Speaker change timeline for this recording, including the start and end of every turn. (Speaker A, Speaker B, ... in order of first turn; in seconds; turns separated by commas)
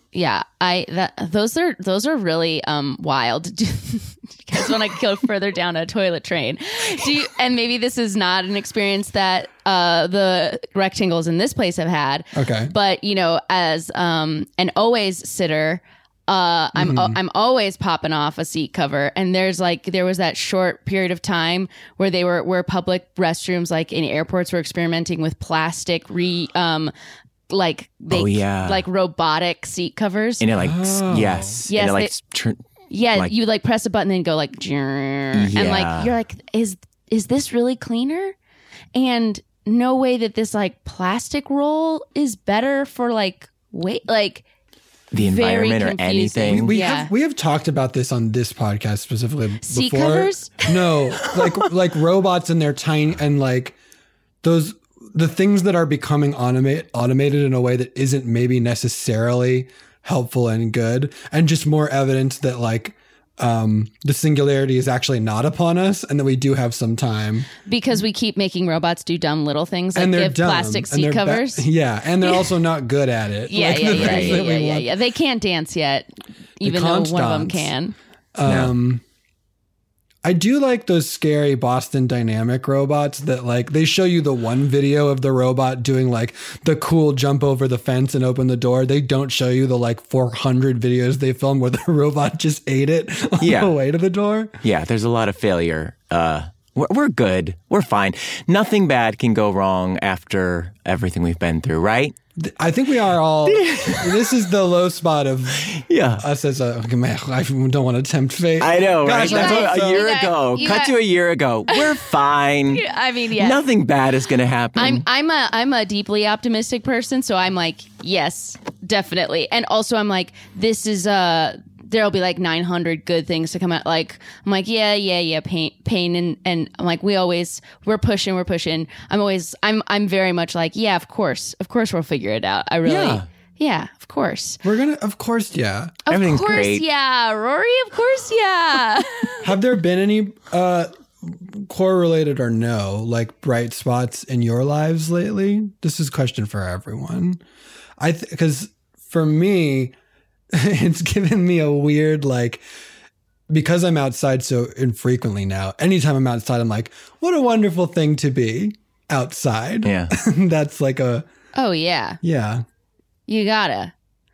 Speaker A: 0.1-26.9, Speaker B: 12.3-12.7, Speaker B: 16.8-17.2, Speaker A: 27.5-30.4, Speaker C: 28.1-28.8, Speaker C: 30.4-32.6, Speaker B: 30.6-31.6, Speaker A: 31.7-32.1, Speaker A: 32.9-38.4, Speaker C: 35.3-36.1, Speaker A: 38.9-44.4, Speaker C: 45.1-46.7, Speaker A: 45.1-47.1, Speaker B: 46.5-53.8, Speaker A: 49.6-50.7, Speaker B: 54.4-67.5, Speaker A: 67.7-71.7, Speaker B: 69.9-74.9, Speaker A: 73.5-77.9, Speaker C: 73.9-74.5, Speaker B: 76.6-77.7, Speaker B: 78.3-79.0, Speaker C: 78.4-78.7, Speaker B: 80.2-94.5, Speaker C: 93.4-93.7, Speaker C: 94.6-102.1, Speaker B: 102.4-110.0, Speaker C: 103.5-104.3, Speaker C: 105.7-106.2, Speaker C: 108.6-112.8, Speaker A: 109.2-111.0, Speaker A: 112.7-113.6, Speaker C: 113.4-115.0, Speaker A: 114.8-134.6, Speaker C: 132.8-133.2, Speaker B: 134.6-136.0, Speaker A: 136.1-139.4, Speaker C: 136.1-136.8, Speaker B: 139.4-147.4, Speaker B: 148.0-149.9, Speaker B: 150.5-152.6, Speaker B: 153.5-161.3, Speaker C: 159.8-160.1, Speaker A: 161.5-162.2, Speaker B: 162.2-162.6, Speaker A: 163.3-163.9